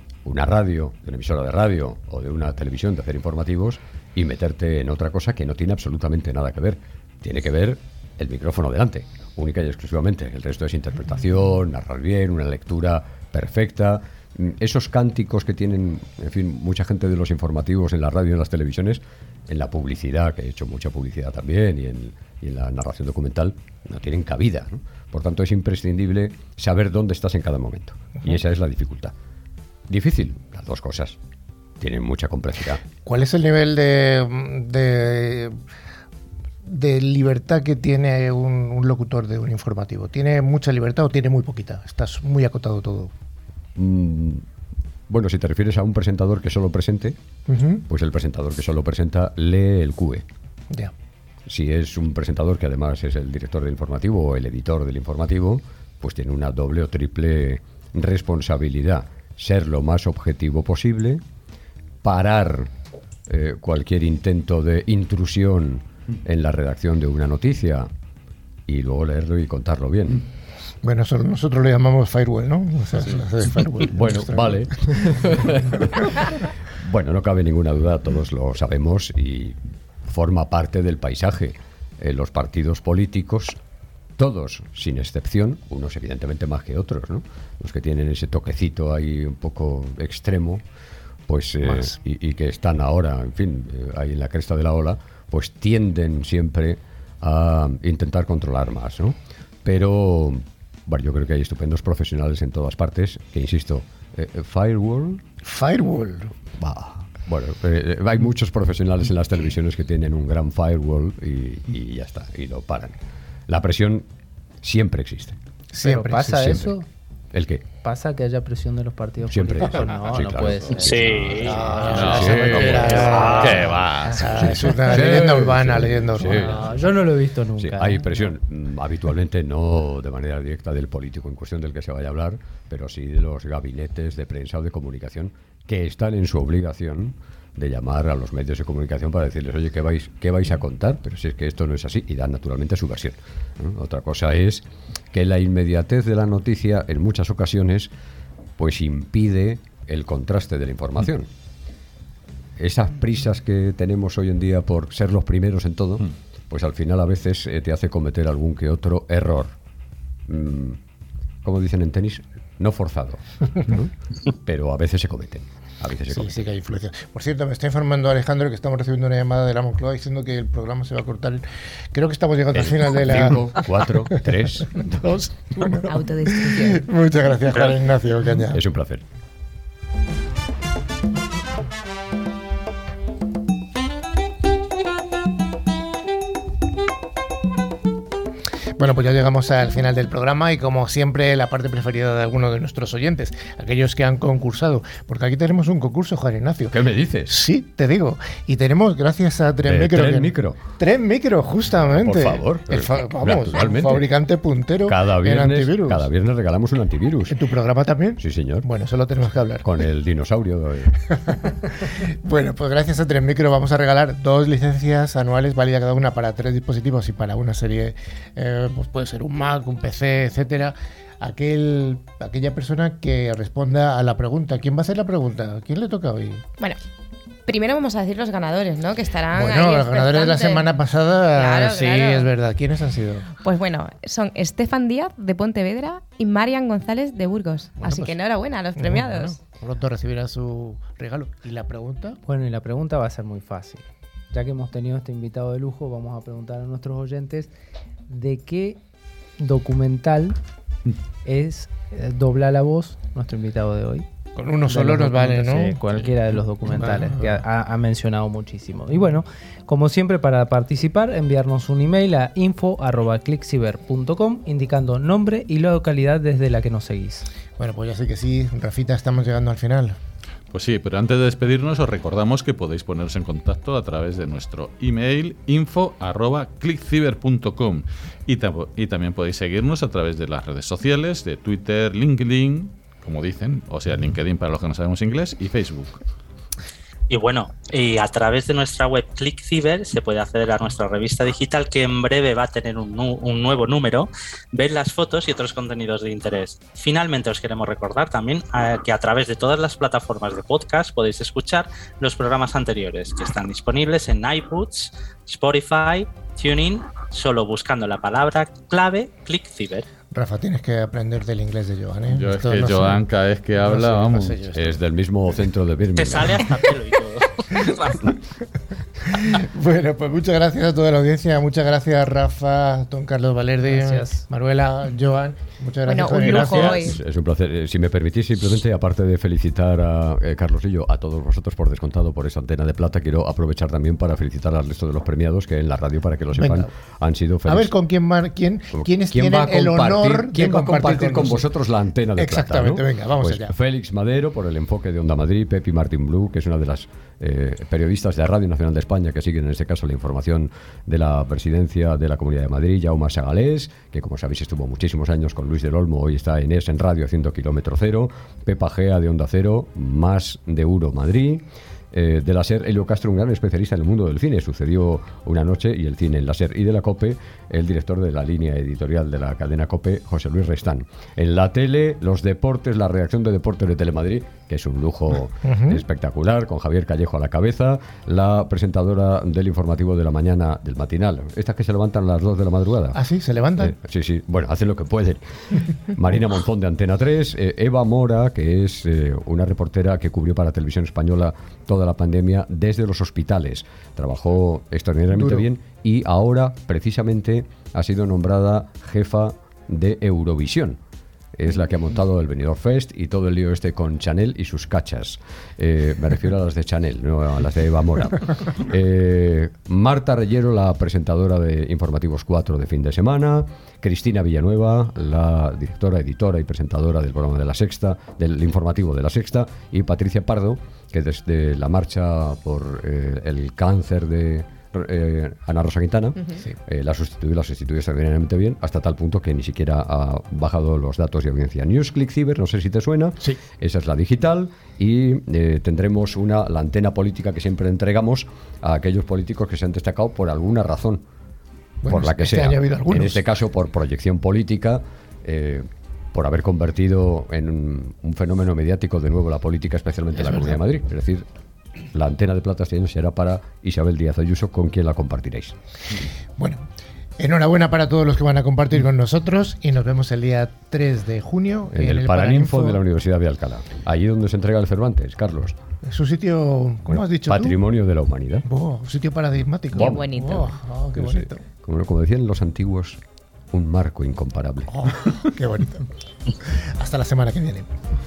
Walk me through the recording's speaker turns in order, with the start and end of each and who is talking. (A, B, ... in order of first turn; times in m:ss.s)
0:00.2-0:29.2 A
0:29.9-0:31.2 A
0:31.8-0:32.8 A
0:33.0-0:35.6 B
0:36.6-0:43.1 B
0:43.8-0:44.5 A
0:45.1-0:47.2 A
0:47.5-0:47.8 B
0:47.9-0:50.3 A
0:51.5-1:01.2 A
1:02.0-1:02.7 A
1:03.3-1:07.9 A
1:08.7-1:10.3 A
1:10.8-1:16.0 B
1:13.9-1:16.2 A
1:16.7-1:23.6 A
1:24.2-1:30.6 A
1:31.3-1:45.2 A
1:31.6-1:31.9 B
1:45.4-1:46.4 B
1:46.6-1:54.1 A
1:54.6-1:55.4 A
1:55.7-1:56.7 B
1:55.8-1:56.9 C
1:57.3-1:57.6 A
1:57.8-2:02.1 C
1:59.3-2:06.7 A
2:00.8-2:01.6 D
2:01.4-2:06.9 B
2:01.9-2:04.2 E
2:02.7-2:03.6 D
2:04.0-2:05.6 C
2:06.2-2:08.3 C
2:07.6-2:27.9 A
2:28.6-2:31.3 A
2:32.6-2:39.6 A
2:40.3-2:40.8 A
2:41.4-2:46.6 A
2:46.1-2:53.7 B
2:52.5-2:55.2 A
2:54.8-2:58.6 B
2:55.9-2:56.9 F
2:57.5-2:57.8 D
2:58.5-2:59.0 A
3:08.8-3:26.1 B
3:16.7-3:17.4 A
3:19.6-3:20.6 A
3:22.0-3:24.1 A
3:24.8-3:27.4 A
3:27.3-3:29.6 B
3:28.2-3:28.7 A
3:29.6-3:31.0 A
3:31.2-3:46.4 B
3:47.5-3:50.7 F
3:49.3-3:53.3 B
3:51.3-3:52.3 F
3:53.4-3:59.4 F
3:57.8-3:58.2 B
3:58.8-4:02.2 B
4:02.3-4:07.5 C
4:08.1-4:08.8 C
4:09.4-4:10.4 C
4:11.2-4:14.1 C
4:14.4-4:15.8 B
4:14.7-4:27.3 C
4:16.8-4:17.3 B
4:27.6-4:30.0 B
4:30.5-4:46.0 E
4:47.1-5:09.9 D
5:10.1-5:13.0 B
5:12.1-5:14.4 E
5:13.6-5:14.8 B
5:14.5-5:16.5 A
5:16.0-5:18.2 D
5:19.0-5:27.0 B
5:23.6-5:24.3 C
5:25.9-5:27.0 F
5:26.7-5:37.7 A
5:36.4-5:36.7 B
5:37.5-5:41.4 B
5:38.7-6:23.0 A
5:42.2-5:43.5 B
6:15.4-6:15.8 B
6:22.9-6:23.7 B
6:23.6-6:40.8 A
6:41.4-7:21.0 A
7:21.8-7:23.2 B
7:21.9-7:31.3 A
7:30.2-7:30.6 B
7:31.9-7:35.6 A
7:36.4-7:36.7 B
7:37.2-7:42.8 B
7:41.7-7:45.6 A
7:45.8-7:47.6 B
7:46.9-7:48.5 A
7:48.5-7:51.4 B
7:49.7-7:53.0 A
7:49.8-7:50.4 F
7:53.5-7:54.9 A
7:54.7-7:57.7 B